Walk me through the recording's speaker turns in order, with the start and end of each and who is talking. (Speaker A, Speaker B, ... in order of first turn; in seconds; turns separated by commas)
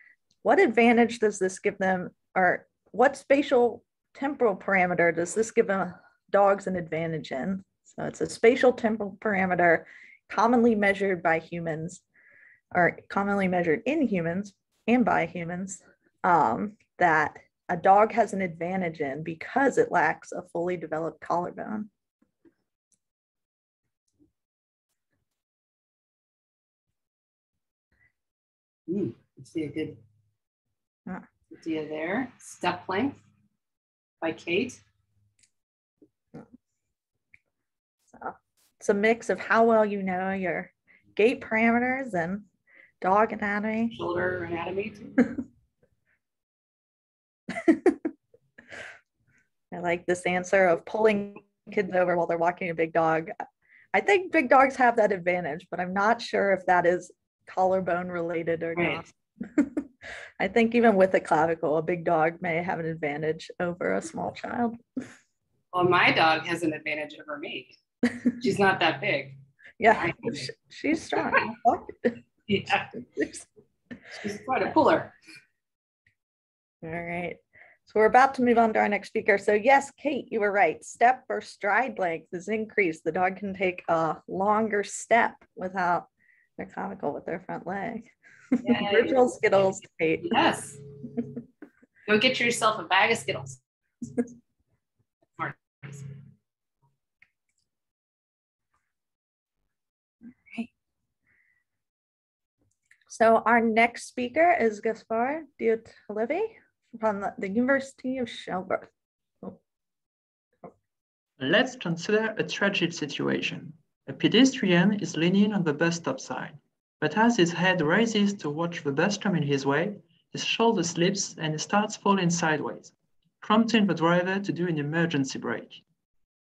Speaker A: 0.4-12.0, Speaker A: 12.7-21.9, Speaker B: 28.9-30.0, Speaker B: 31.5-33.2, Speaker B: 34.2-34.8, Speaker A: 38.1-42.5, Speaker A: 43.0-43.9, Speaker B: 43.9-45.0, Speaker A: 47.5-48.0, Speaker A: 49.7-53.3, Speaker A: 53.9-59.9, Speaker B: 58.8-59.0, Speaker A: 60.4-64.8, Speaker B: 65.7-67.8, Speaker B: 68.4-69.4, Speaker A: 69.8-72.2, Speaker B: 69.9-70.5, Speaker B: 72.5-72.9, Speaker A: 73.1-73.4, Speaker B: 74.1-75.1, Speaker A: 76.8-90.3, Speaker B: 88.6-89.2, Speaker B: 90.2-90.8, Speaker B: 92.0-93.6, Speaker B: 95.4-96.1, Speaker A: 103.1-109.6, Speaker C: 111.4-125.8